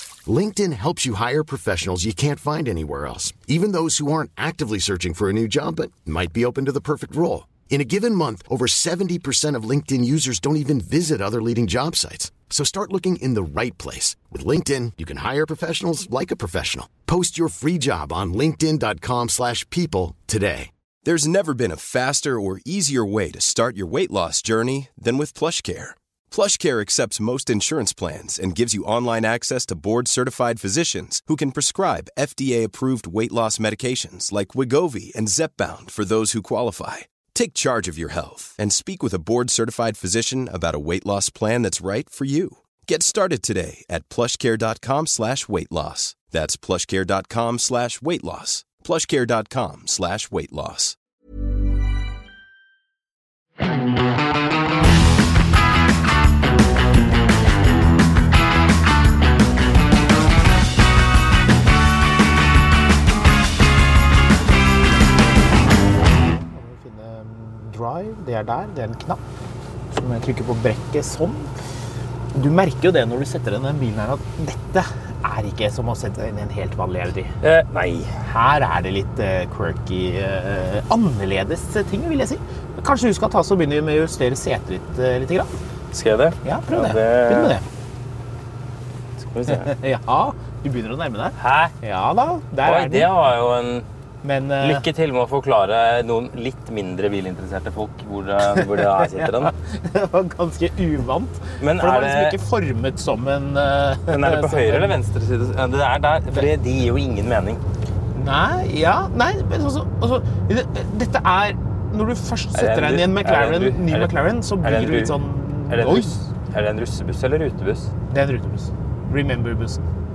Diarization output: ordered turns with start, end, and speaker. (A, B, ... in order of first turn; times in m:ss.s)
0:00.2-0:20.7 A
0:21.0-0:51.0 B
1:06.3-1:09.2 C
1:09.9-1:11.5 C
1:12.3-1:17.3 C
1:17.4-1:18.1 D
1:18.2-1:25.5 C
1:25.9-1:27.6 D
1:26.4-1:27.6 C
1:29.2-1:29.7 D
1:29.5-1:33.1 C
1:31.4-1:31.7 D
1:32.6-1:33.8 D
1:34.2-1:34.8 C
1:34.6-1:39.5 D
1:38.5-1:45.0 C
1:41.6-1:42.4 D
1:44.1-1:47.6 D
1:48.1-1:56.1 C
1:52.5-1:55.2 D
1:55.7-1:57.9 D
1:58.1-1:59.8 C